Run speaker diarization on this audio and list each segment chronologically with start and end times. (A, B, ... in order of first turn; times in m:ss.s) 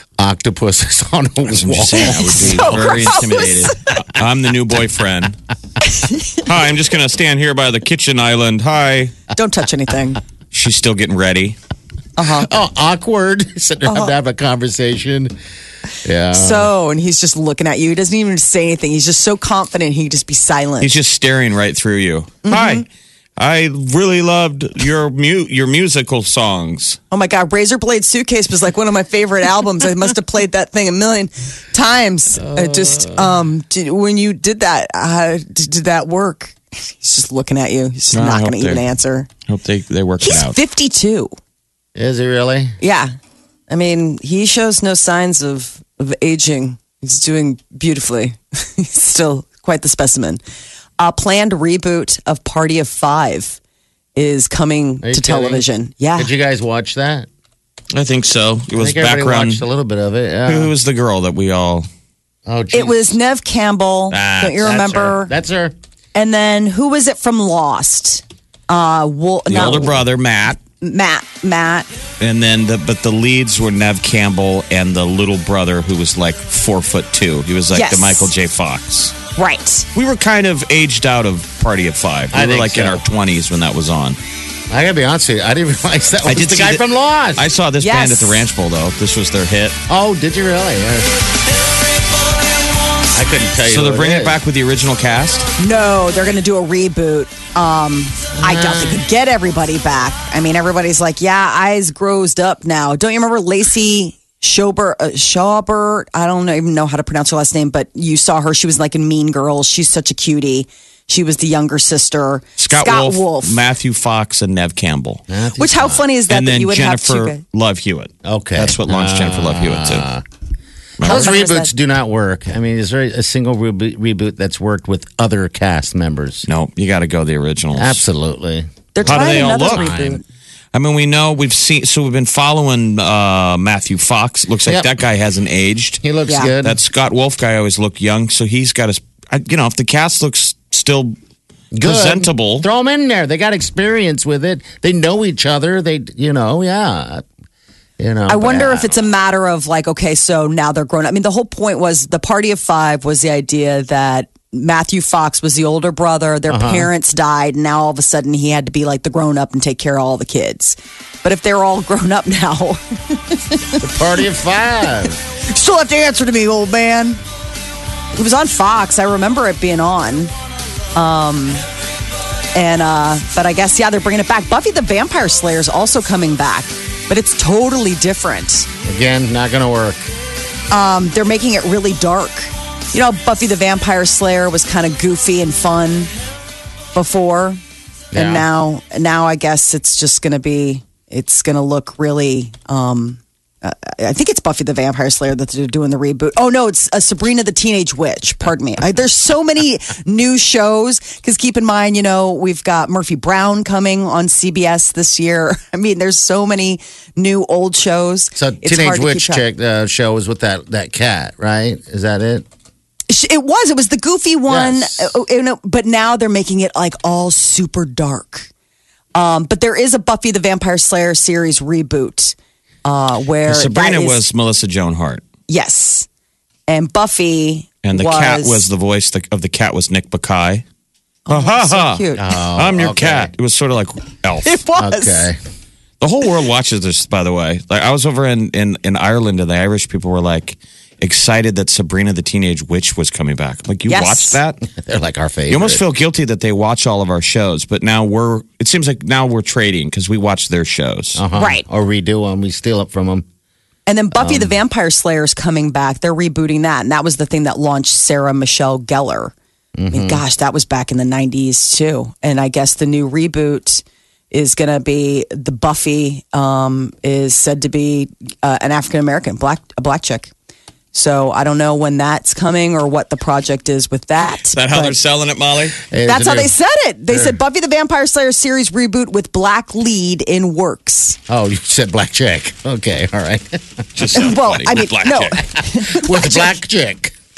0:00.2-0:03.3 A
0:01.5-0:05.4 B
0:02.0-0:03.7 C
0:06.4-0:09.1 B
0:09.3-0:10.2 C
0:10.5-0:11.6 B
0:12.2-0:12.5 C
0:12.2-0:15.4 A
0:13.9-0:14.1 C
0:16.0-0:16.7 A
0:16.3-0:20.9 C
0:20.8-0:22.8 B
0:22.4-0:22.8 C
0:23.4-0:27.0 B
0:27.1-0:39.3 C
0:32.5-0:33.2 A
0:38.1-0:38.8 B
0:39.5-0:40.6 B
0:40.2-0:41.3 C
0:42.0-0:42.8 A
0:42.8-0:43.1 C
0:43.7-0:50.4 C
0:51.0-0:53.6 C
0:54.2-0:56.3 C
0:55.0-0:55.6 A
0:56.2-0:57.3 A
0:57.9-0:59.6 B
0:58.7-1:00.7 A
1:00.5-1:01.9 B
1:02.5-1:03.2 A
1:02.7-1:05.3 C
1:04.1-1:05.7 A
1:06.1-1:10.0 C
1:09.5-1:10.6 B
1:10.6-1:11.9 C
1:12.2-1:19.1 B
1:17.7-1:18.3 C
1:19.4-1:19.9 C
1:20.0-1:24.2 B
1:22.3-1:23.0 A
1:24.7-1:27.5 A
1:26.3-1:26.8 B
1:27.4-1:29.8 B
1:27.8-1:28.4 C
1:29.9-1:31.1 A
1:33.1-1:34.4 A
1:33.7-1:35.5 B
1:35.6-1:53.6 C
1:38.4-1:39.0 A
1:52.6-1:55.2 B
1:55.3-1:56.0 A
1:55.6-1:57.4 C
1:56.3-2:00.1 B
1:58.2-2:00.2 A
2:01.0-2:01.4 B
2:01.0-2:06.5 A
2:01.0-2:01.7 C
2:06.5-2:08.0 B
2:07.8-2:10.2 A
2:09.0-2:10.2 C
2:09.0-2:09.9 B
2:10.7-2:16.0 B
2:16.0-2:16.8 A
2:16.3-2:16.5 C
2:16.6-2:21.2 B
2:21.7-2:27.2 A
2:21.8-2:22.7 B
2:28.0-2:29.0 A
2:28.3-2:43.9 C
2:36.5-2:36.9 A
2:43.8-2:45.2 A
2:45.5-2:47.2 C
2:48.1-2:50.3 C
2:51.0-2:51.6 C
2:52.6-2:58.7 C
2:58.8-3:00.0 A
3:00.7-3:06.1 C
3:06.9-3:07.6 C
3:08.1-3:08.5 A
3:08.1-3:29.4 C
3:28.4-3:32.5 A
3:33.1-3:38.5 C
3:34.5-3:35.1 A
3:39.1-3:44.2 C
3:43.4-3:45.2 B
3:45.5-3:46.1 C
3:46.7-3:48.7 C
3:47.8-3:50.6 B
3:51.3-3:52.3 C
3:51.3-3:52.0 B
3:52.2-3:53.3 A
3:52.6-3:54.6 B
3:54.4-3:55.3 C
3:54.8-3:55.4 A
3:56.0-4:04.6 B
4:03.9-4:04.4 C
4:04.7-4:05.8 A
4:05.5-4:11.2 B
4:11.2-4:13.2 A
4:11.4-4:11.7 C
4:13.9-4:19.3 C
4:14.2-4:14.6 A
4:19.8-4:20.2 A
4:19.9-4:30.3 C
4:30.9-4:35.0 C
4:34.5-4:35.8 B
4:35.8-4:36.5 A
4:36.0-4:41.2 C
4:37.1-4:37.4 A
4:41.3-4:43.8 A
4:44.0-4:45.4 B
4:44.1-4:46.6 C
4:45.9-4:47.1 A